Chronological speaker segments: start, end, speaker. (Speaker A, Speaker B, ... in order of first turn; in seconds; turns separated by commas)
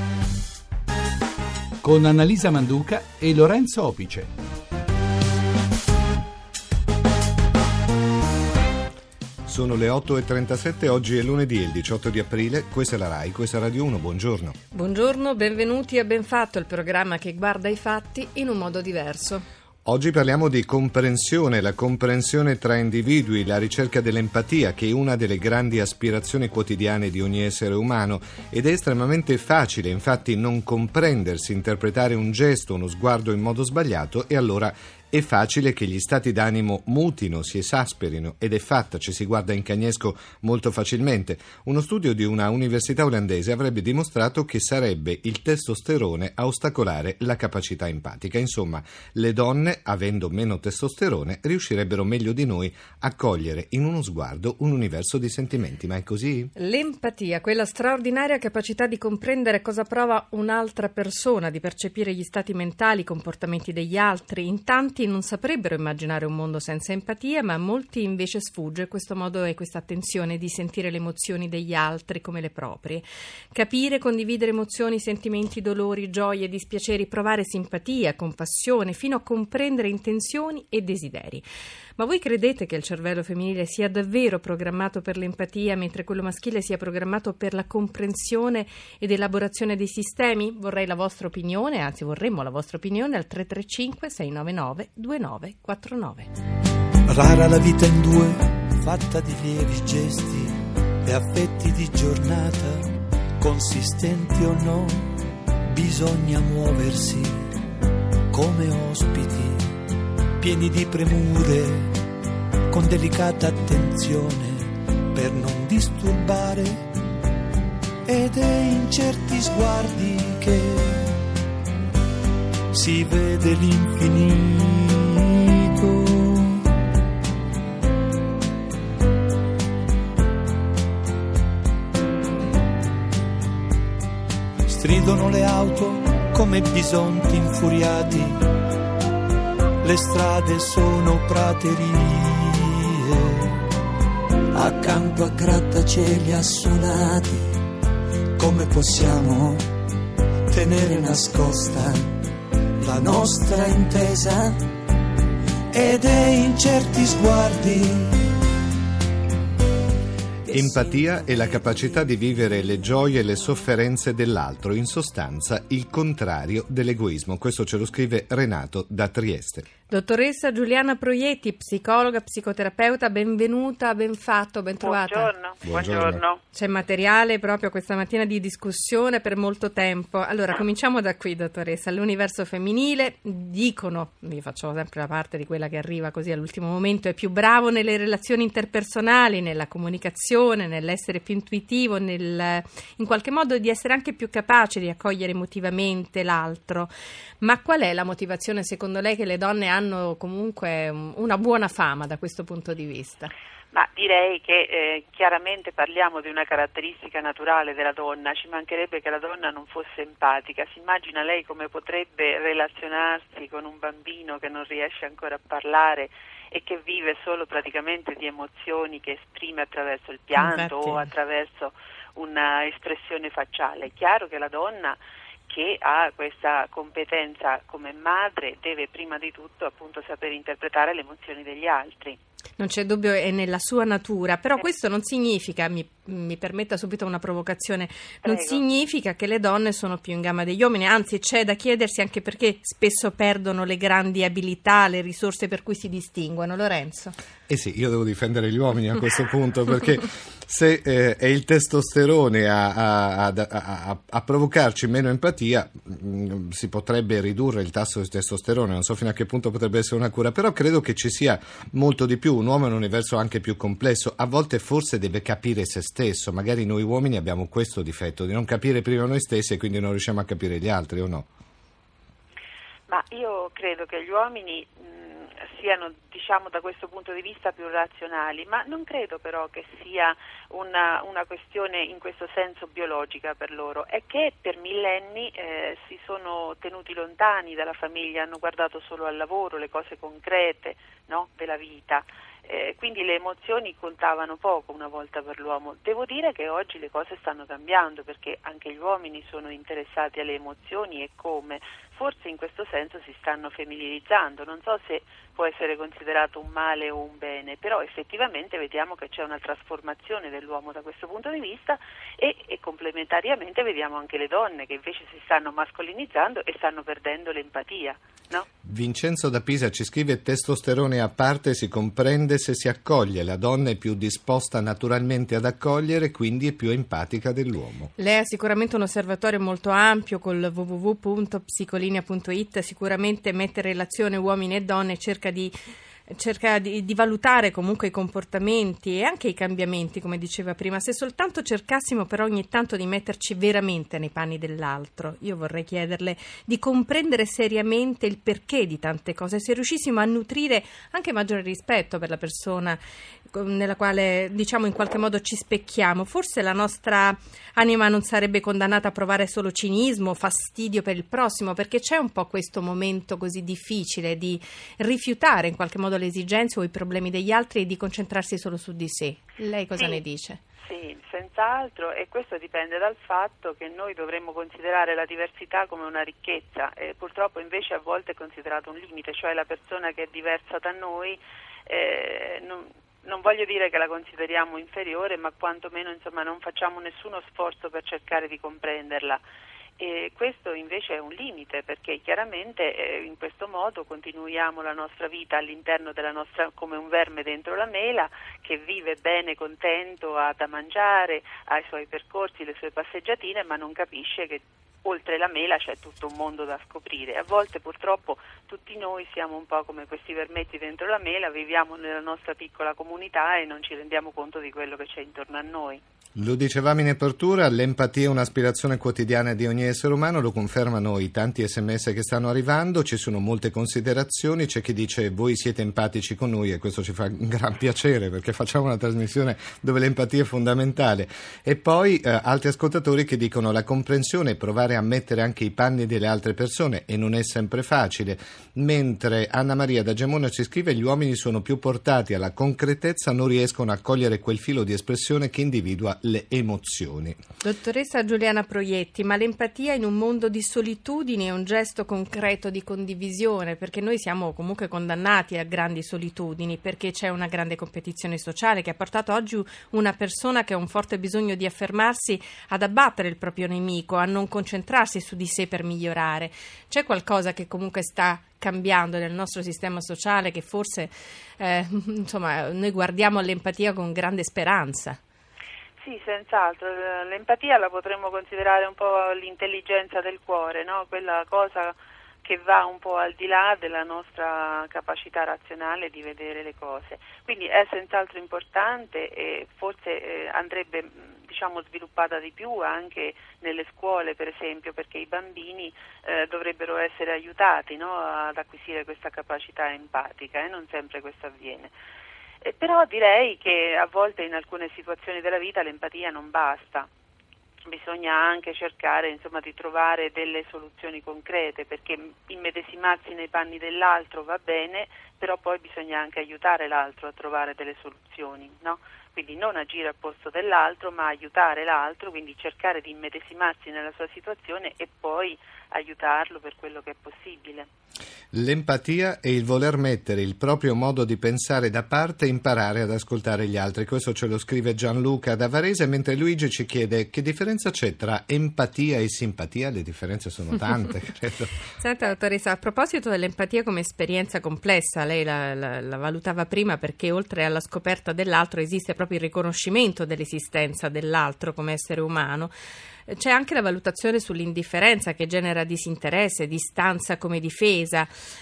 Speaker A: 1.8-4.3, Speaker B: 9.5-14.6, Speaker C: 14.7-19.4, Speaker B: 19.9-56.5, Speaker C: 56.6-81.5, Speaker C: 82.0-96.3, Speaker D: 97.1-102.9, Speaker D: 103.4-105.2, Speaker D: 105.7-107.4, Speaker D: 108.3-109.7, Speaker D: 110.4-111.9, Speaker D: 112.7-116.8, Speaker D: 118.1-121.2, Speaker D: 122.7-126.7, Speaker D: 134.7-138.4, Speaker D: 139.8-143.6, Speaker D: 144.5-147.5, Speaker D: 148.4-149.7, Speaker D: 150.5-152.2, Speaker D: 152.8-154.6, Speaker D: 155.7-158.3, Speaker B: 160.5-169.7, Speaker C: 169.9-175.3, Speaker E: 174.8-176.4, Speaker B: 175.7-176.2, Speaker C: 176.5-203.3, Speaker E: 203.7-232.2, Speaker C: 220.4-221.1, Speaker C: 232.6-247.2, Speaker E: 238.2-238.6, Speaker B: 247.5-271.3, Speaker E: 272.9-318.5, Speaker B: 318.6-327.9, Speaker C: 328.0-335.5, Speaker C: 336.1-352.8, Speaker C: 353.3-370.4, Speaker E: 369.8-370.0, Speaker E: 370.6-389.2, Speaker E: 389.8-415.8, Speaker B: 416.2-447.2, Speaker C: 447.4-475.0, Speaker E: 475.8-501.7, Speaker E: 502.4-506.9, Speaker E: 507.7-527.7, Speaker B: 528.3-541.6, Speaker C: 541.8-552.5, Speaker C: 553.1-558.1